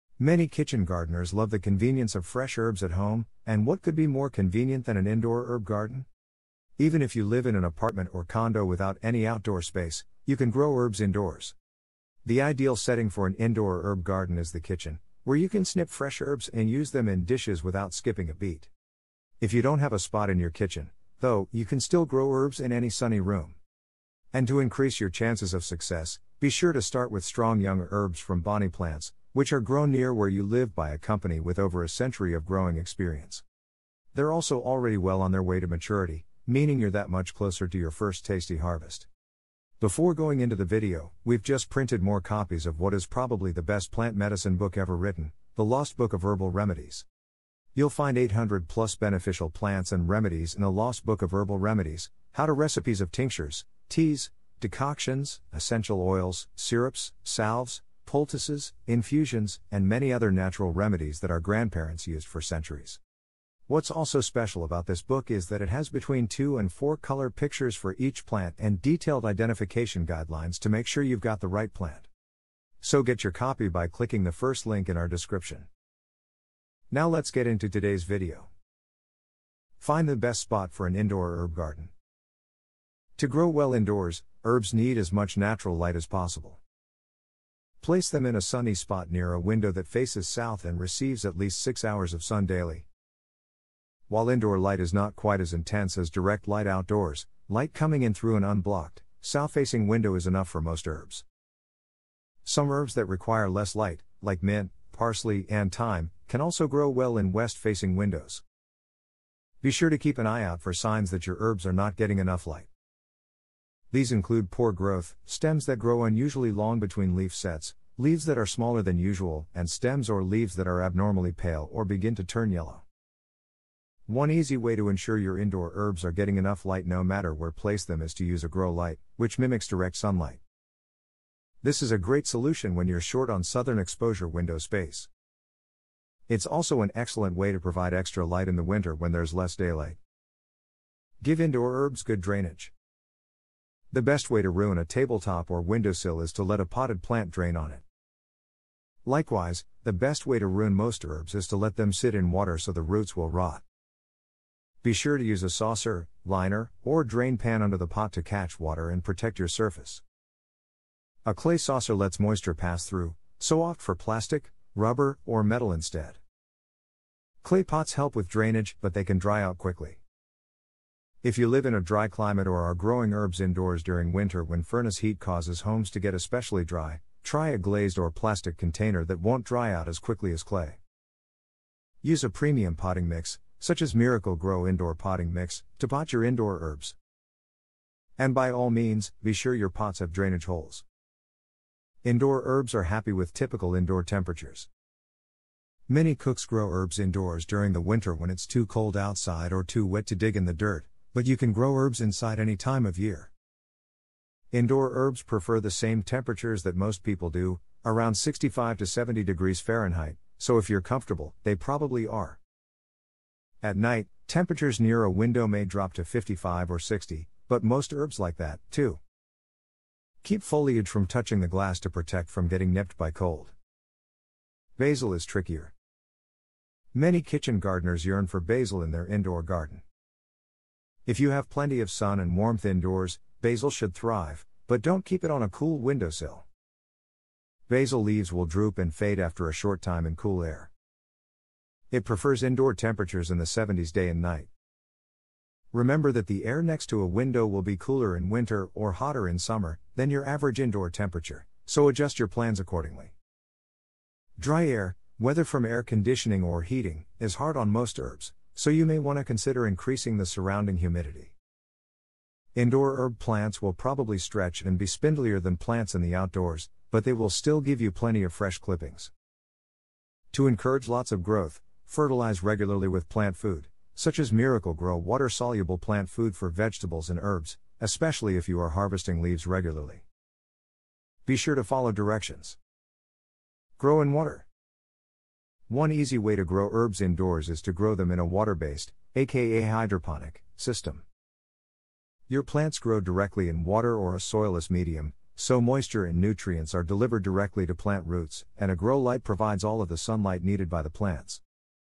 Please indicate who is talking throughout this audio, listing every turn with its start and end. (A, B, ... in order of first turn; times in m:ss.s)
0:00.2-0:06.1 A
0:06.8-0:11.6 A
0:12.2-0:18.7 A
0:19.4-0:23.6 A
0:24.3-0:33.4 A
0:34.1-0:39.1 A
0:39.8-0:47.0 A
0:47.8-1:03.0 A
1:03.7-1:12.1 A
1:12.8-1:15.7 A
1:16.9-1:18.5 A
1:19.8-1:21.9 A
1:23.2-1:26.6 A
1:27.8-1:32.9 A
1:34.1-1:41.2 A
1:42.4-1:48.4 A
1:49.6-1:52.7 A
1:53.9-2:02.8 A
2:04.1-2:10.4 A
2:11.6-2:15.1 A
2:16.3-2:20.0 A
2:21.2-2:22.7 A
2:23.9-2:27.8 A
2:29.0-2:33.6 A
2:34.8-2:40.0 A
2:41.2-2:46.2 A
2:47.4-2:50.0 A
2:51.2-3:00.8 A
3:02.0-3:07.0 A
3:08.2-3:10.8 A
3:12.0-3:14.7 A
3:15.9-3:23.3 A
3:24.5-3:32.4 A
3:33.6-3:39.0 A
3:40.2-3:43.5 A
3:44.8-3:45.7 A
3:46.9-3:49.8 A
3:51.1-3:56.5 A
3:57.7-4:00.7 A
4:01.9-4:04.5 A
4:05.7-4:13.1 A
4:14.4-4:21.3 A
4:22.6-4:29.1 A
4:30.3-4:40.0 A
4:41.3-4:42.6 A
4:43.8-4:44.5 A
4:45.7-4:51.0 A
4:52.3-5:01.4 A